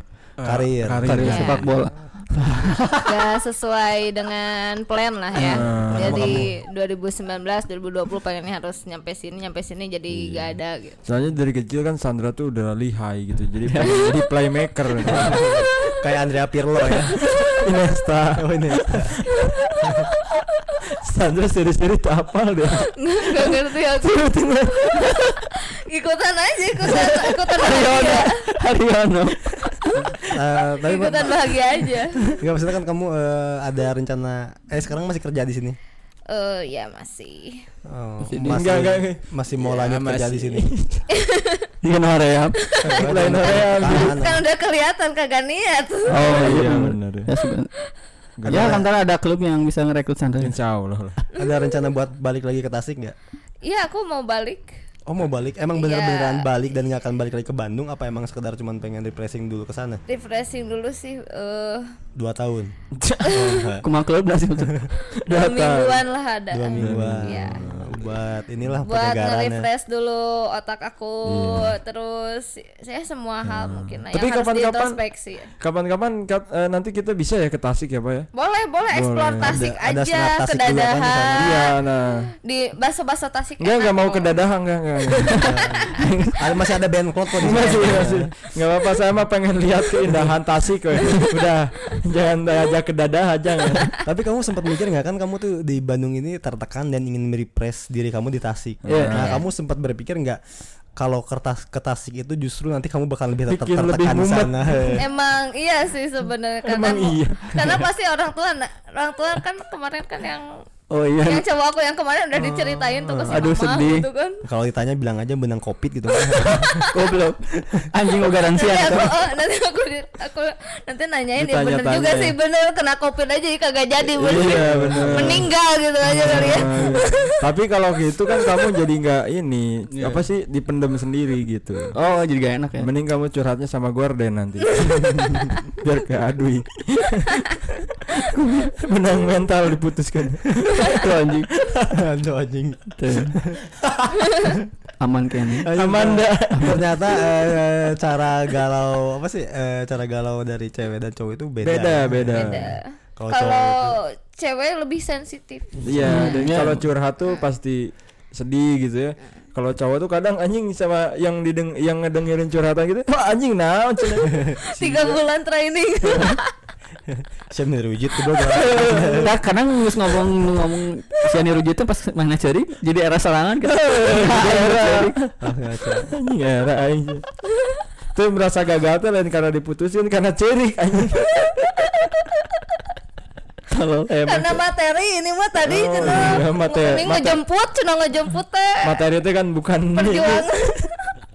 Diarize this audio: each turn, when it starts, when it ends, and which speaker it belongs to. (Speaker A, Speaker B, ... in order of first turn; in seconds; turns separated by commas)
Speaker A: 0.4-1.8, Speaker B: 0.4-1.6, Speaker C: 1.0-3.0, Speaker D: 1.2-1.6, Speaker D: 3.0-11.0, Speaker C: 5.4-5.6, Speaker A: 5.5-6.5, Speaker B: 5.9-6.5, Speaker A: 10.1-15.4, Speaker C: 13.7-14.1, Speaker C: 15.0-15.4, Speaker B: 15.1-17.2, Speaker A: 17.2-19.6, Speaker B: 18.4-19.2, Speaker A: 21.0-25.3, Speaker D: 23.0-28.4, Speaker C: 26.9-30.1, Speaker B: 30.1-31.5, Speaker D: 30.7-32.2, Speaker B: 32.4-35.8, Speaker D: 36.3-37.7, Speaker B: 37.9-40.7, Speaker C: 38.3-38.6, Speaker A: 38.5-41.0, Speaker D: 41.1-41.7, Speaker C: 41.8-42.6, Speaker B: 42.8-44.4, Speaker A: 42.9-44.1, Speaker D: 44.0-46.5, Speaker C: 46.1-47.7, Speaker A: 46.1-47.3, Speaker A: 48.4-48.9, Speaker C: 48.5-50.5, Speaker B: 48.5-48.9, Speaker A: 50.4-51.2, Speaker B: 51.4-53.1, Speaker D: 53.6-54.8, Speaker B: 55.1-60.0, Speaker D: 55.8-56.5, Speaker D: 60.1-62.0, Speaker B: 62.1-63.9, Speaker A: 62.9-63.4, Speaker C: 63.8-64.9, Speaker A: 65.2-66.0, Speaker D: 65.2-67.6, Speaker B: 66.5-69.7, Speaker A: 66.8-68.1, Speaker D: 68.9-75.5, Speaker A: 71.2-71.8, Speaker A: 73.4-75.0, Speaker A: 75.6-78.3, Speaker D: 78.3-81.8, Speaker A: 78.9-79.6, Speaker B: 79.4-81.5, Speaker A: 81.3-82.3, Speaker D: 82.4-84.3, Speaker A: 83.6-85.5, Speaker B: 85.4-88.3, Speaker C: 86.0-86.4, Speaker A: 87.4-93.9, Speaker B: 94.0-100.4, Speaker A: 98.8-99.4, Speaker C: 98.9-99.3, Speaker D: 99.2-99.4, Speaker B: 101.0-105.0, Speaker A: 103.5-105.0, Speaker D: 105.0-110.5, Speaker A: 106.6-107.8, Speaker C: 110.9-111.5, Speaker D: 111.2-114.4, Speaker B: 112.4-113.5, Speaker C: 113.3-114.1, Speaker B: 114.4-116.8, Speaker D: 116.4-116.9, Speaker C: 116.9-119.3, Speaker D: 118.5-127.4, Speaker A: 121.4-122.4, Speaker A: 124.2-125.5, Speaker C: 124.2-125.4, Speaker A: 126.0-131.9, Speaker C: 126.8-127.0, Speaker C: 129.9-130.2, Speaker C: 131.9-132.9, Speaker A: 132.8-141.0, Speaker D: 134.8-135.5, Speaker B: 135.0-135.5, Speaker C: 140.8-141.5, Speaker A: 141.6-141.9, Speaker B: 141.9-144.6, Speaker C: 143.0-143.4, Speaker C: 145.0-145.7, Speaker B: 145.6-153.9, Speaker A: 145.7-147.0, Speaker A: 151.6-152.8, Speaker D: 152.4-156.5, Speaker B: 155.8-156.1, Speaker A: 155.8-165.2, Speaker C: 156.0-156.9, Speaker D: 164.6-166.5, Speaker B: 167.1-169.4, Speaker C: 168.5-175.2, Speaker A: 174.0-175.3, Speaker B: 175.4-176.1, Speaker A: 176.1-177.2, Speaker A: 178.1-181.5, Speaker D: 181.6-182.3, Speaker C: 183.7-184.6, Speaker D: 184.2-189.0, Speaker A: 185.6-187.4, Speaker A: 188.8-190.7, Speaker D: 189.9-190.9